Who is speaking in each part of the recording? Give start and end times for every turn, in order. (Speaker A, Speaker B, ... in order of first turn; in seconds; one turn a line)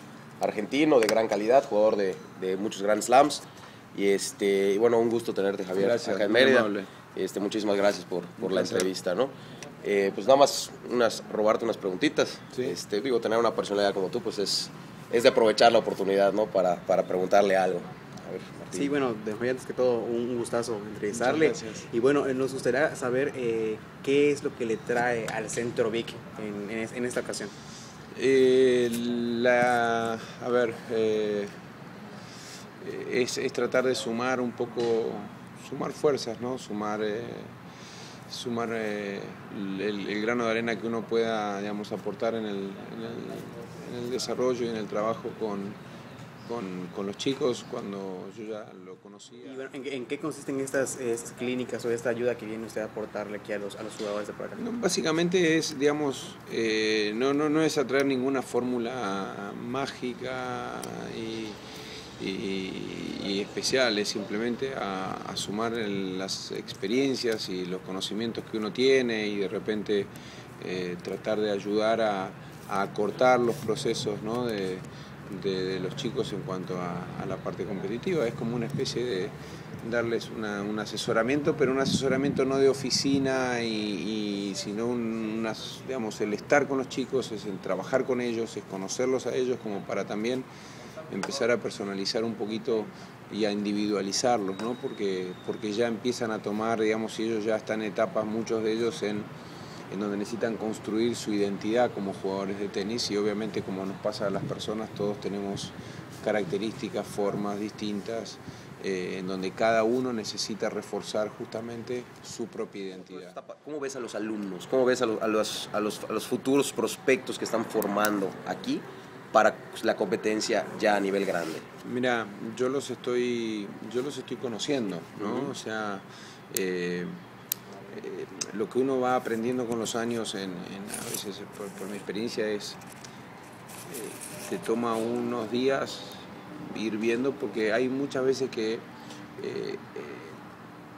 Speaker A: 0.4-18.9
Speaker B: 5.7-6.9
Speaker B: 8.4-8.9
Speaker B: 12.5-12.8
Speaker C: 18.7-27.5
Speaker B: 21.1-21.8
Speaker B: 28.1-31.5
Speaker B: 32.8-37.5
Speaker B: 38.3-45.8
Speaker B: 46.5-49.7
Speaker C: 49.4-54.6
Speaker B: 54.6-61.6
Speaker B: 62.2-90.5
Speaker B: 91.1-99.3
Speaker B: 99.9-113.4
Speaker A: 113.1-121.7
Speaker B: 121.8-127.1
Speaker A: 125.2-125.5
Speaker B: 127.9-132.8
Speaker B: 133.9-138.8
Speaker B: 139.4-140.4